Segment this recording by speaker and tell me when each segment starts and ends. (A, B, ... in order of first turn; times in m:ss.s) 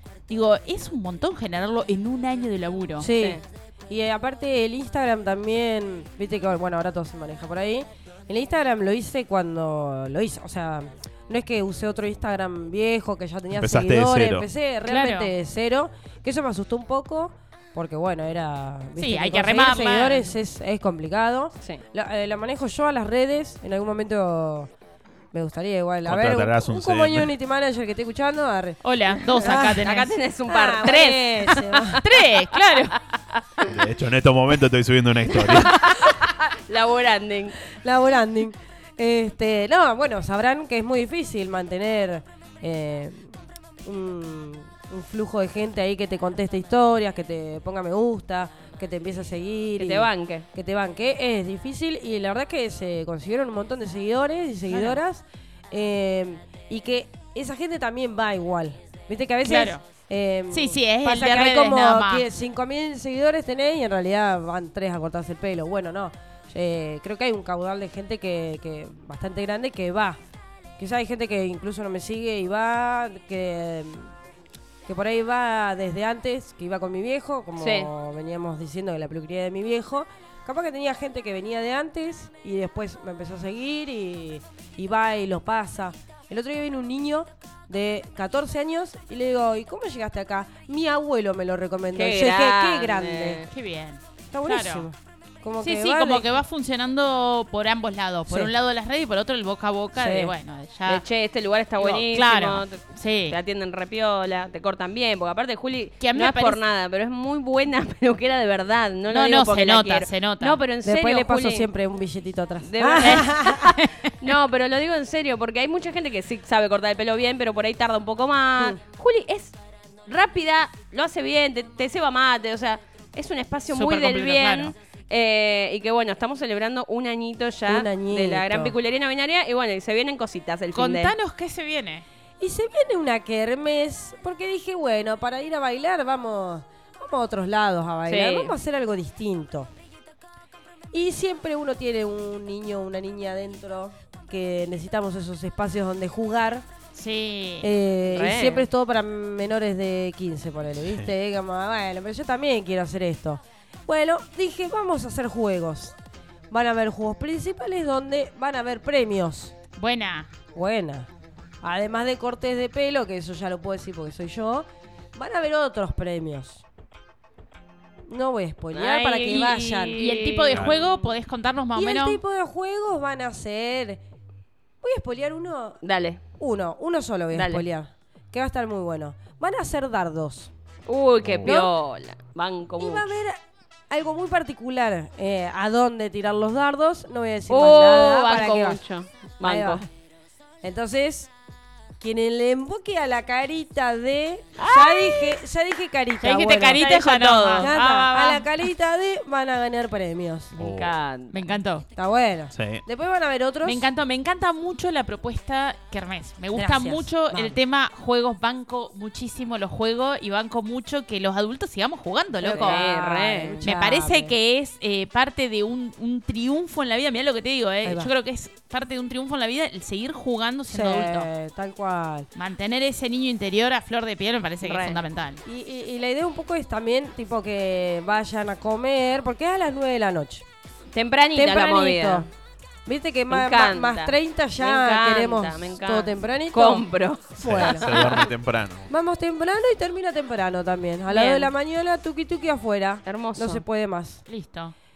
0:00.3-0:03.1 A
0:03.0-0:24.7 B
0:03.2-0:03.4 C
0:13.6-0:14.5 D
0:14.8-0:15.3 A
0:19.0-0:20.3 A
0:25.3-0:28.8 B
0:26.0-0:27.3 D
0:28.8-0:30.1 A
0:29.4-0:32.0 C
0:29.4-0:29.8 B
0:30.5-0:32.0 B
0:32.0-0:32.9 A
0:33.6-0:35.8 D
0:35.3-0:37.6 C
0:37.7-0:43.3 B
0:43.8-1:10.2 B
0:49.8-0:50.5 C
0:54.7-0:55.0 A
0:59.4-0:59.8 A
1:00.5-1:02.3 A
1:10.8-1:14.1 B
1:14.9-1:33.4 B
1:17.6-1:17.9 C
1:32.0-1:33.5 C
1:33.5-1:34.9 A
1:34.3-1:36.3 B
1:35.6-1:41.0 A
1:40.0-1:40.4 B
1:40.9-1:51.7 C
1:41.8-1:43.4 A
1:46.0-1:46.6 A
1:49.1-1:50.6 A
1:50.8-1:53.7 B
1:52.6-1:53.7 C
1:53.0-1:54.1 A
1:54.2-1:59.6 C
2:00.1-2:11.1 C
2:03.7-2:04.8 A
2:07.7-2:08.8 B
2:10.7-2:12.0 A
2:12.4-2:19.7 B
2:18.1-2:18.5 C
2:20.9-2:26.6 B
2:26.9-2:27.7 A
2:27.6-2:36.0 B
2:28.1-2:28.7 C
2:30.8-2:31.1 D
2:36.5-2:39.5 B
2:39.8-2:40.3 A
2:40.6-2:41.1 B
2:41.6-2:46.6 B
2:48.1-2:50.0 B
2:48.7-2:50.8 C
2:50.0-2:52.2 A
2:50.5-2:50.8 D
2:51.8-2:54.0 B
2:54.8-2:55.8 B
2:55.8-2:56.2 C
2:56.4-3:00.5 B
2:57.3-2:57.7 C
3:00.9-3:03.1 C
3:01.2-3:01.5 D
3:01.4-3:01.7 B
3:02.8-3:03.4 B
3:03.9-3:08.8 B
3:07.5-3:09.8 C
3:09.4-3:09.9 B
3:10.6-3:11.3 B
3:12.0-3:16.8 B
3:14.6-3:15.4 C
3:16.2-3:18.5 A
3:16.7-3:17.8 C
3:17.6-3:20.6 B
3:20.6-3:20.9 D
3:20.6-3:21.4 C
3:21.3-3:21.9 A
3:22.0-3:23.8 B
3:22.5-3:22.8 D
3:23.6-3:32.8 A
3:26.5-3:27.6 B
3:32.4-3:34.3 B
3:32.5-3:33.6 C
3:33.6-3:41.3 A
3:37.8-3:38.1 B
3:40.7-3:42.3 B
3:42.4-3:45.4 A
3:44.6-3:45.0 C
3:45.4-3:50.4 B
3:50.9-3:52.3 C
3:51.3-3:52.3 B
3:52.9-3:56.9 B
3:53.3-3:58.3 C
3:57.4-3:57.9 B
3:57.4-3:58.9 D
3:58.9-4:04.2 B
4:01.1-4:01.5 C
4:03.0-4:03.6 C
4:04.3-4:04.8 A